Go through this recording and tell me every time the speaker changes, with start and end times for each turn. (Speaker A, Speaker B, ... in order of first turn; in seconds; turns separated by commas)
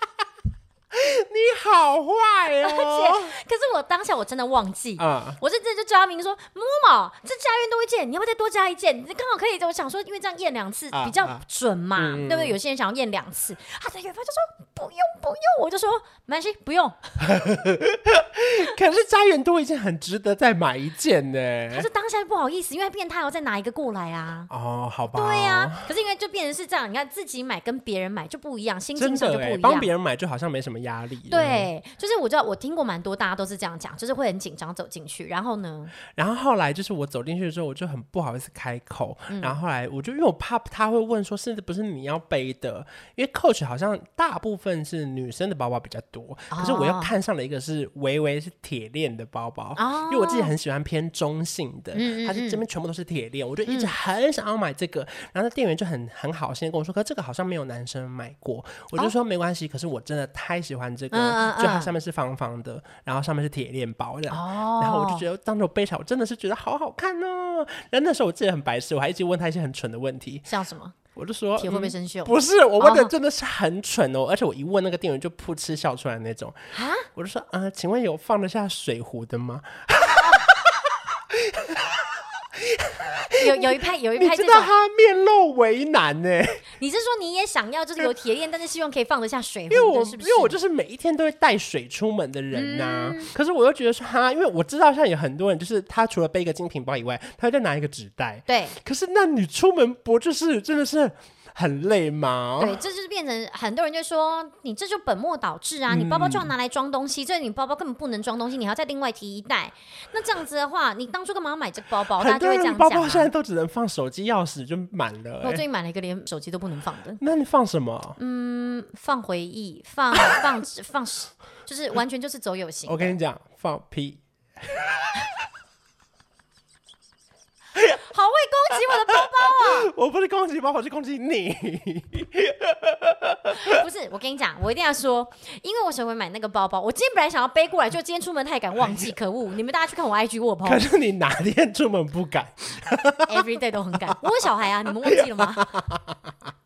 Speaker A: 0.9-3.4, Speaker B: 2.6-17.3, Speaker A: 5.0-5.4, Speaker A: 10.9-11.4, Speaker A: 12.0-12.6, Speaker A: 17.2-21.9, Speaker B: 21.7-24.5, Speaker A: 24.5-25.9, Speaker B: 25.1-29.9, Speaker A: 29.0-31.7, Speaker B: 31.3-36.0, Speaker A: 36.1-70.5, Speaker B: 39.3-39.6, Speaker B: 46.5-47.1, Speaker B: 49.8-50.5, Speaker B: 51.9-52.6, Speaker B: 53.7-53.9, Speaker B: 61.1-61.9, Speaker B: 64.3-65.2, Speaker B: 70.5-71.0, Speaker A: 71.2-86.6, Speaker B: 71.6-73.1, Speaker B: 76.7-77.1, Speaker B: 80.0-80.5, Speaker B: 83.4-84.7, Speaker B: 86.8-90.6, Speaker A: 89.7-102.8, Speaker B: 92.5-93.3, Speaker B: 98.5-98.8, Speaker B: 102.6-113.3, Speaker A: 105.9-106.5, Speaker A: 112.1-115.6, Speaker B: 115.4-117.2, Speaker A: 117.2-118.2, Speaker B: 118.2-123.2, Speaker A: 122.9-125.3, Speaker B: 127.8-129.9, Speaker A: 128.8-133.8, Speaker B: 133.6-140.8, Speaker A: 140.7-143.4, Speaker B: 143.3-145.8, Speaker A: 144.9-146.3